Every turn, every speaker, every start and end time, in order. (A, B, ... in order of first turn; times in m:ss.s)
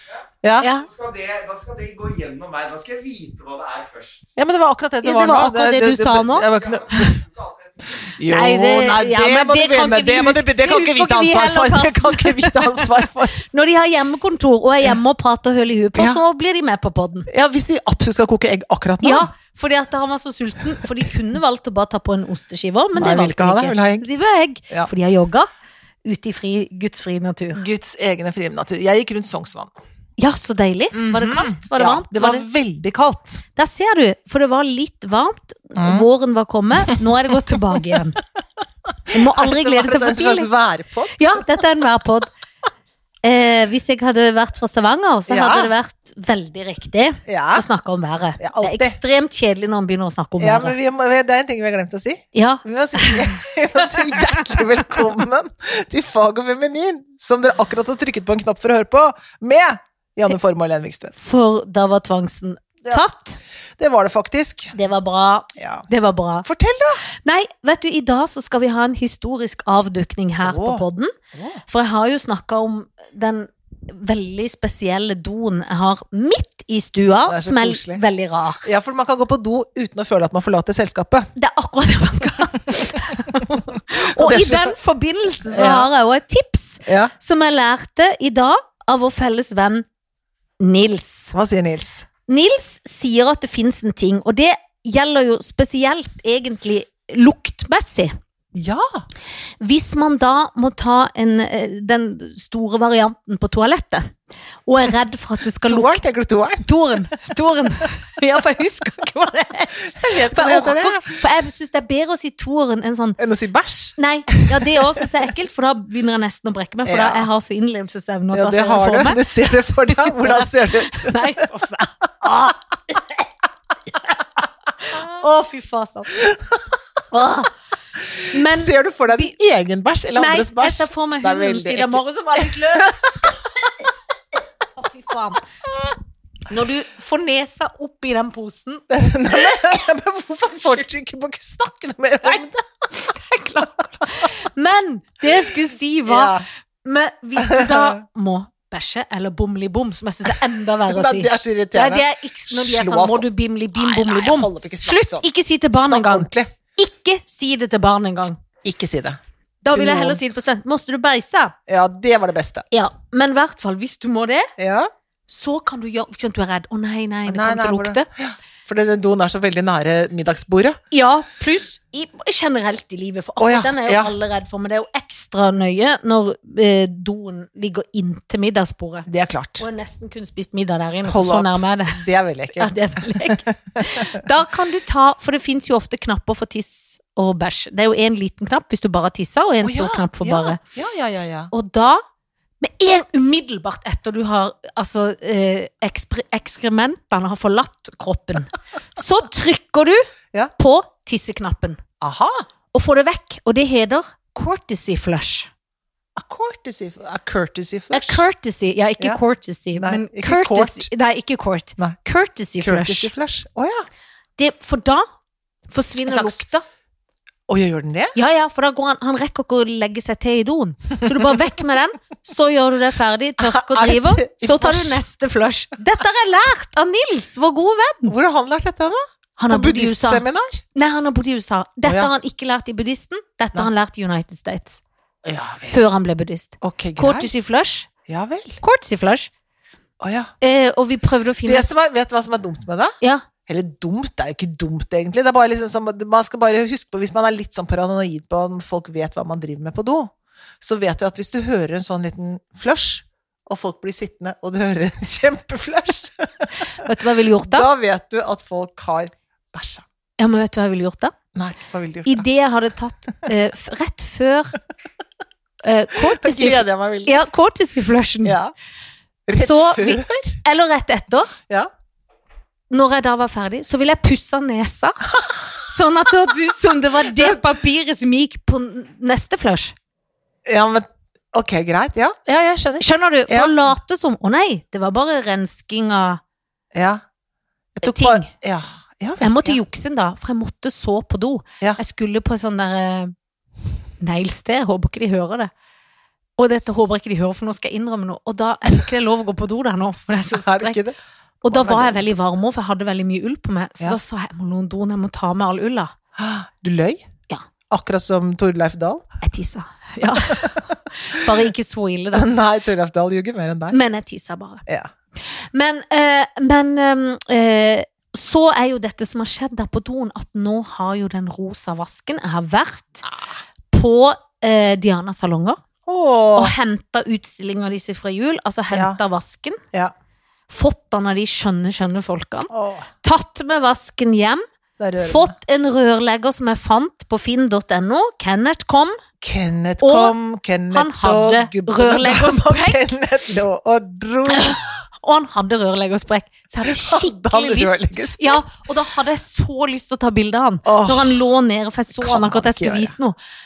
0:00.4-0:00.7 A
0:00.6-0:00.9 B
0:00.8-0:04.3 C
0:04.4-0:07.2 A
0:05.0-0:06.5 B
0:06.4-0:08.0 C
0:08.0-0:13.4 A
0:08.3-0:17.3 B
0:16.0-0:16.2 A
0:17.3-0:19.3 A
0:19.0-0:25.5 B
0:23.0-0:24.1 A
0:26.0-0:27.6 B
0:27.6-0:29.7 A
0:30.2-0:32.4 B
0:30.9-0:33.4 A
0:33.6-0:38.2 B
0:35.8-0:36.1 A
0:39.1-0:41.6 A
0:39.1-0:40.5 B
0:41.2-0:42.3 B
0:43.2-0:50.8 B
0:45.3-0:45.7 A
0:47.3-0:47.7 A
0:48.4-0:49.0 A
0:50.4-1:01.1 A
0:52.3-0:53.3 B
0:54.0-0:54.6 B
1:01.2-1:03.4 B
1:03.8-1:04.7 A
1:04.7-1:06.5 B
1:05.6-1:05.9 A
1:06.4-1:07.0 A
1:07.2-1:11.1 B
1:10.4-1:11.6 A
1:11.7-1:18.7 B
1:17.3-1:18.0 A
1:18.6-1:21.3 A
1:21.4-1:29.9 B
1:22.7-1:23.0 A
1:24.0-1:24.8 A
1:25.5-1:25.9 A
1:26.8-1:27.1 A
1:30.6-1:31.3 B
1:31.3-1:32.1 A
1:32.3-1:38.2 B
1:38.5-1:39.0 A
1:39.6-1:44.2 B
1:44.7-1:46.0 B
1:45.6-1:47.0 A
1:46.6-1:53.2 B
1:49.8-1:51.2 A
1:53.2-1:55.0 A
1:54.0-2:03.2 B
1:56.8-1:57.3 A
1:58.3-2:01.2 A
2:04.8-2:06.2 B
2:06.1-2:06.7 A
2:07.1-2:07.5 B
2:08.1-2:13.3 A
2:08.3-2:09.3 B
2:10.2-2:13.1 B
2:14.8-2:15.4 B
2:16.5-2:18.9 B
2:18.9-2:22.6 A
2:23.0-2:38.4 B
2:26.1-2:26.5 A
2:27.4-2:28.0 A
2:30.9-2:36.5 A
2:38.6-2:39.2 A
2:39.6-2:41.6 B
2:39.7-2:40.2 A
2:41.7-2:42.6 A
2:42.7-2:44.5 B
2:44.6-2:44.9 A
2:45.3-2:48.1 B
2:47.3-2:50.8 A
2:50.9-2:59.1 B
2:53.4-2:54.1 A
2:59.1-2:59.6 A
2:59.6-3:02.0 B
3:01.0-3:04.1 A
3:02.6-3:10.6 B
3:09.6-3:11.5 A
3:11.5-3:12.0 B
3:12.6-3:20.1 B
3:20.6-3:21.8 B
3:22.0-3:22.5 A
3:22.7-3:25.5 B
3:26.2-3:28.3 A
3:27.9-3:33.1 B
3:29.8-3:30.9 A
3:32.6-3:33.9 A
3:34.4-3:35.1 B
3:35.7-3:36.6 B
3:36.0-3:36.4 A
3:37.5-3:38.2 A
3:38.2-3:48.1 B
3:41.0-3:41.3 A
3:43.4-3:45.0 A
3:48.0-3:50.6 A
3:49.4-3:50.2 B
3:50.8-3:54.8 B
3:51.8-3:52.1 A
3:55.2-3:55.8 A
3:55.7-3:57.9 B
3:56.6-3:57.3 A
3:58.1-3:58.6 A
3:58.6-3:59.3 B
4:00.0-4:00.3 A
4:00.4-4:01.7 B
4:01.4-4:03.0 A
4:03.5-4:19.8 A
4:16.6-4:17.7 B
4:20.2-4:21.1 B
4:21.4-4:22.2 A
4:22.0-4:24.6 B
4:25.6-4:28.4 B
4:26.0-4:27.2 A
4:28.2-4:28.5 A
4:29.3-4:30.4 A
4:29.3-4:31.3 B
4:32.7-4:35.0 B
4:35.2-4:35.6 A
4:35.6-4:39.8 B
4:40.5-4:43.5 A
4:42.8-4:46.2 B
4:46.7-4:47.0 A
4:47.8-4:49.6 A
4:47.8-4:48.3 B
4:49.2-4:53.1 B
4:54.0-4:55.5 B
4:56.4-5:00.8 B
5:00.3-5:02.0 A
5:01.4-5:05.9 B
5:06.2-5:07.1 A
5:07.7-5:09.1 A
5:09.2-5:12.3 B
5:10.0-5:10.7 A
5:12.1-5:13.8 A
5:13.7-5:14.6 B
5:15.4-5:23.1 B
5:23.7-5:25.6 B
5:25.9-5:26.6 A
5:26.4-5:29.6 B
5:28.7-5:29.0 A
5:30.5-5:32.5 B
5:32.5-5:32.9 A
5:33.0-5:34.4 B
5:34.8-5:35.4 A
5:35.0-5:39.0 B
5:39.2-5:44.6 A
5:39.8-5:40.1 B
5:40.7-5:42.8 B
5:44.3-5:53.2 B
5:46.6-5:48.5 A
5:50.6-5:51.2 A
5:52.0-5:52.9 A